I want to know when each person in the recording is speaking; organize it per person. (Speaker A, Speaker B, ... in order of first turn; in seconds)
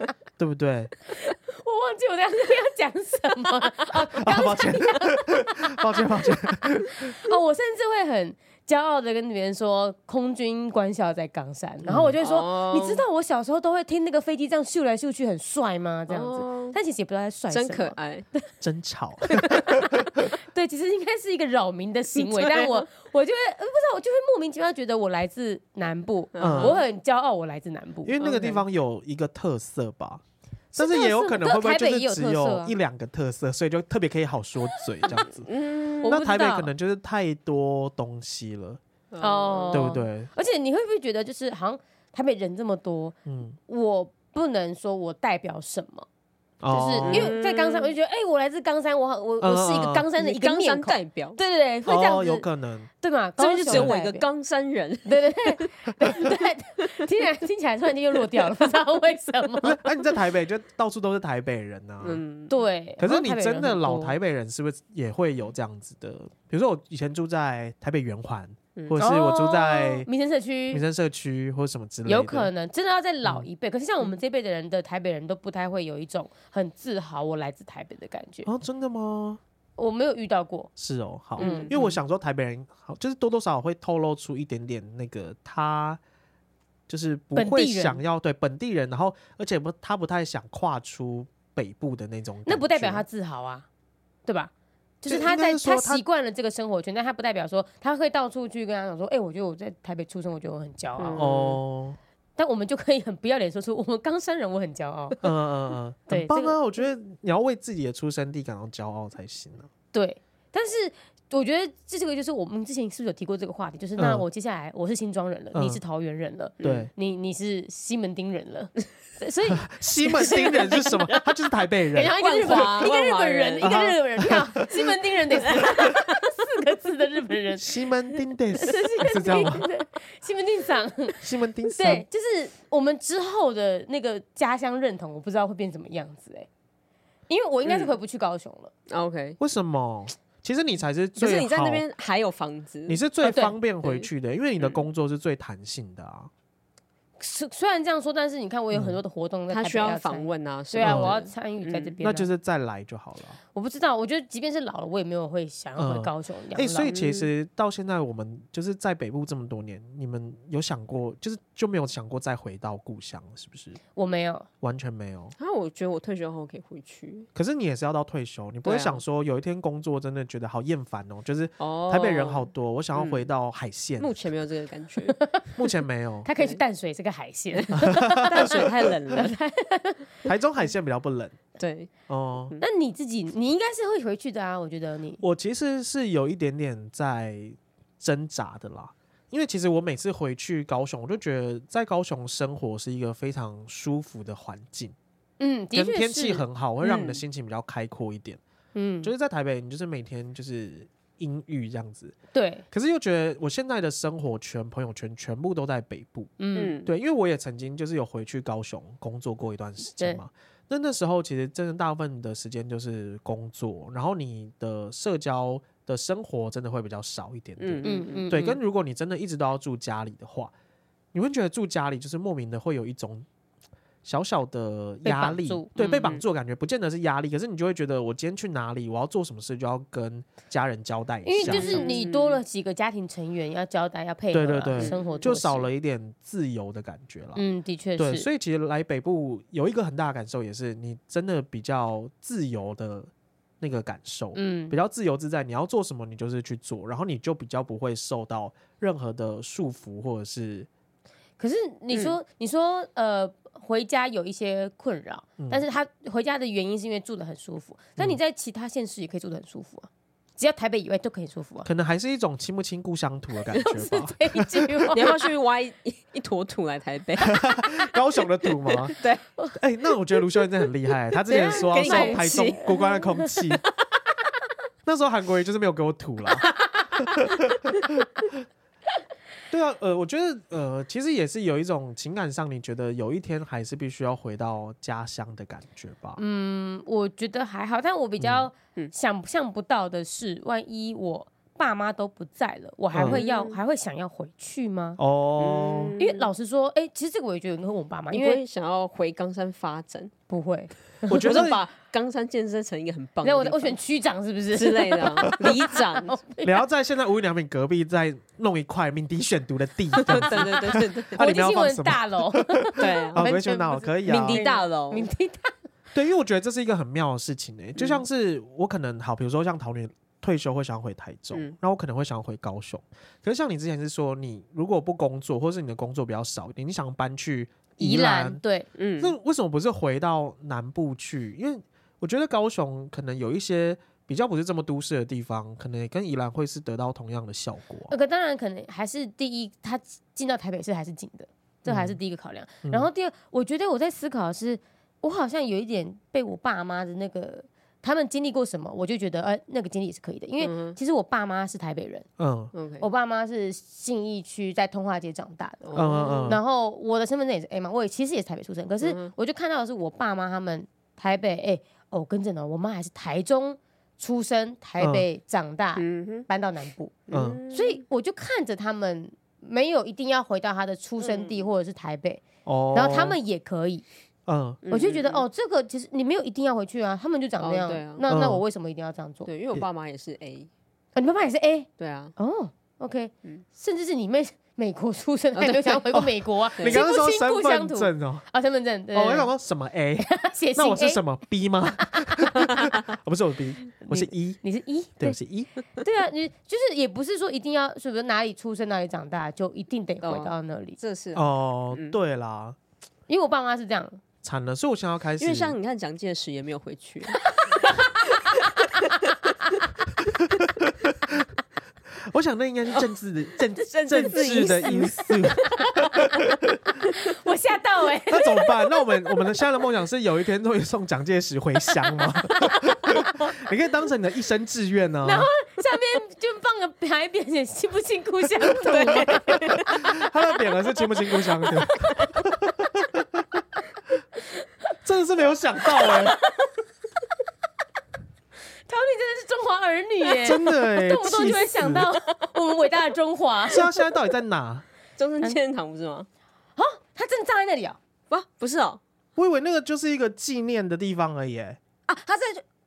Speaker A: 0.4-0.9, 4.1-7.2, 11.8-12.2, 18.6-20.3, 26.4-26.8, 28.0-30.2, 30.8-35.5, 36.0-38.8, 39.7-40.3, 43.2-43.6, 46.6-47.3, 49.4-50.1, 51.9-52.9, 53.7-54.0, 59.6-62.2, 63.0-70.1, 70.7-72.5, 78.4-79.4, 80.8-86.0, 86.9-93.0, 95.0-96.0, 101.2-102.0, 105.2-109.7, 114.0-114.2, 115.5-115.8, 116.6-116.9, 119.5-122.2, 123.6-124.9, 127.6-129.7, 131.2-132.0, 139.4-141.8, 142.9-146.3, 148.7-149.0, 150.8-151.1, 152.0-153.4, 155.8-163.8, 164.6-165.3, 167.3-174.1, 175.6-176.3, 177.7-178.7, 180.2-181.4, 182.1-182.6, 185.2-194.9, 195.7-198.4, 199.0-202.2, 202.7-220.5, 221.1-223.3, 224.0-231.9, 234.3-237.4, 238.0-243.1, 243.6-250.7, 261.6-264.9, 267.2-268.9, 269.6-273.6, 274.8-278.4, 279.5-286.2, 288.2-288.5, 292.9-293.2, 295.0-295.9, 301.1-301.6, 305.2-305.6, 306.4-314.4, 315.9-328.4, 329.0-337.9, 341.6-342.0, 342.6-342.9, 352.2-352.5, 355.7-356.4, 364.8-365.0, 367.1-367.4, 372.4-373.2, 374.3-374.6, 378.1-378.4, 385.9-388.2, 388.9-394.4, 395.0-395.5, 401.1-402.6, 404.2-405.5, 410.3-411.2, 412.0-416.3, 418.1-425.3, 429.6-433.4, 434.8-436.2, 440.2-441.9, 443.5-444.6, 449.1-451.6
Speaker B: 1.2-6.4, 7.0-18.4, 19.4-28.6, 30.7-32.7, 36.0-36.7, 39.2-43.2, 43.7-46.0, 46.7-52.5, 53.0-54.3, 55.0-59.8, 62.5-64.2, 69.0-70.8, 72.0-78.5, 79.8-80.7, 81.4-81.9, 87.3-88.0, 92.5-93.7, 94.2-101.3, 102.4-105.3, 106.1-106.6, 109.9-121.2, 121.9-127.8, 128.5-131.2, 131.7-136.5, 137.3-138.7, 143.2-143.5, 147.2-152.3, 153.5-156.9, 163.9-164.5, 175.2-175.5, 176.2-180.2, 182.6-185.2, 195.4-196.4, 198.7-199.1, 202.3-202.6, 206.4-206.8, 217.8-218.6, 225.0-225.8, 231.2-235.7, 237.3-238.3, 244.3-244.8, 251.4-261.7, 263.6-265.2, 271.3-273.3, 286.2-295.0, 296.0-298.4, 300.3-301.5, 303.2-306.6, 310.3-315.5, 327.8-328.7, 337.9-352.0, 352.8-373.8, 374.7-379.3, 380.9-389.3, 390.0-391.0, 392.1-392.6, 393.8-395.2, 395.8-400.8, 403.1-404.0, 407.4-408.9, 413.9-414.9, 416.9-418.9, 425.0-429.9, 438.7-443.8, 446.6-447.8
Speaker C: 12.2-13.0, 16.1-16.8, 17.5-18.2, 22.2-22.8, 26.3-26.8, 35.1-36.2, 39.1-39.9, 47.0-47.9, 50.1-51.4, 53.4-55.7, 62.0-62.5, 81.4-81.8, 101.0-101.6, 116.6-116.9, 122.2-123.8, 125.6-125.9, 137.6-137.9, 138.9-139.4, 141.2-143.0, 143.8-144.8, 149.5-151.9, 156.9-157.3, 165.4-167.3, 168.6-169.0, 171.6-173.3, 174.0-175.2, 177.5-179.3, 181.6-181.9, 196.8-197.2, 206.6-206.9, 217.6-218.5, 225.8-226.2, 231.4-232.4, 234.8-235.2, 264.9-267.6, 268.7-269.2, 271.3-272.9, 293.0-293.6, 295.4-296.3, 298.1-300.1, 301.1-303.8, 304.5-306.1, 310.0-311.2, 312.8-313.3, 314.0-315.1, 317.8-318.0, 328.8-329.1, 350.4-350.8, 352.5-352.9, 355.6-356.4, 358.8-359.1, 365.8-366.3, 367.1-367.8, 371.0-371.4, 374.6-375.2, 377.4-378.1, 379.2-380.5, 381.8-382.1, 385.3-385.9, 386.6-386.8, 400.0-402.0, 405.2-407.6, 413.7-415.4, 428.6-429.8, 445.0-446.1, 448.1-448.8, 451.9-452.4